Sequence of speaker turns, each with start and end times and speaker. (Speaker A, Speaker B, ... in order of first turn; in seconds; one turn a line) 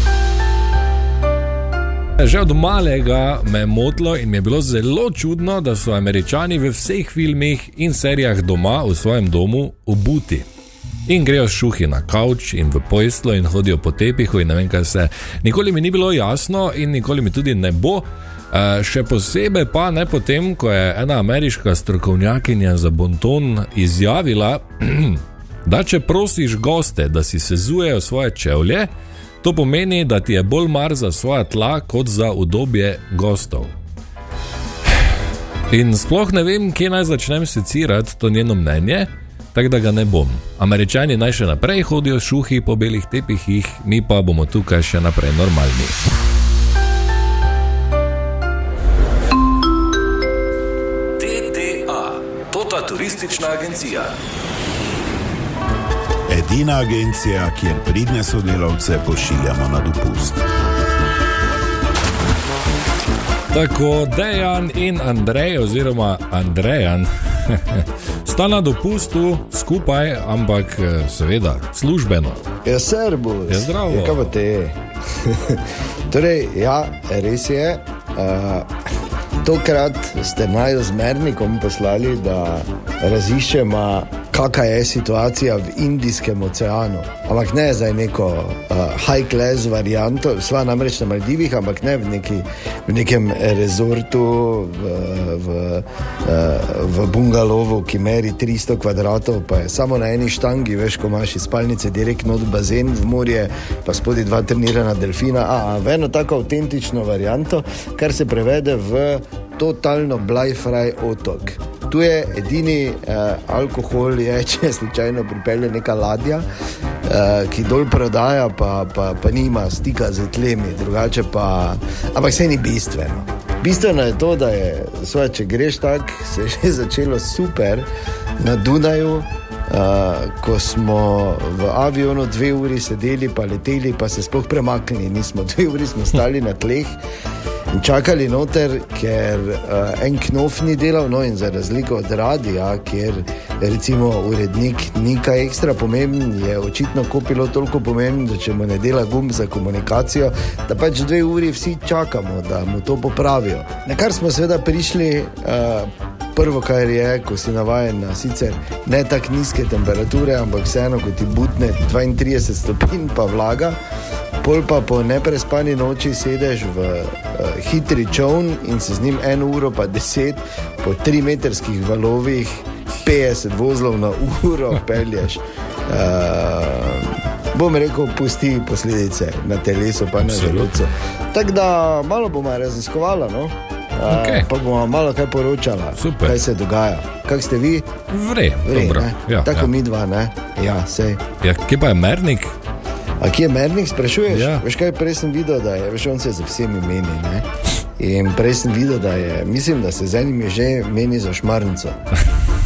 Speaker A: 2.2-10.4
Speaker A: 11.1-28.9
Speaker A: 29.4-33.7
Speaker A: 35.7-46.0
Speaker A: 51.2-54.2
Speaker B: 56.3-60.4
Speaker A: 63.5-72.4
Speaker C: 72.6-78.7
Speaker A: 73.5-74.3
Speaker C: 79.4-116.5
Speaker C: 117.0-127.9
Speaker C: 128.4-136.9
Speaker C: 137.7-163.8
Speaker C: 164.4-187.9
Speaker A: 180.2-180.8
Speaker A: 184.1-184.5
Speaker A: 185.9-186.4
Speaker A: 188.1-189.7
Speaker C: 188.6-191.2
Speaker A: 191.4-192.5
Speaker C: 193.2-197.5
Speaker A: 194.3-194.6
Speaker C: 198.0-202.0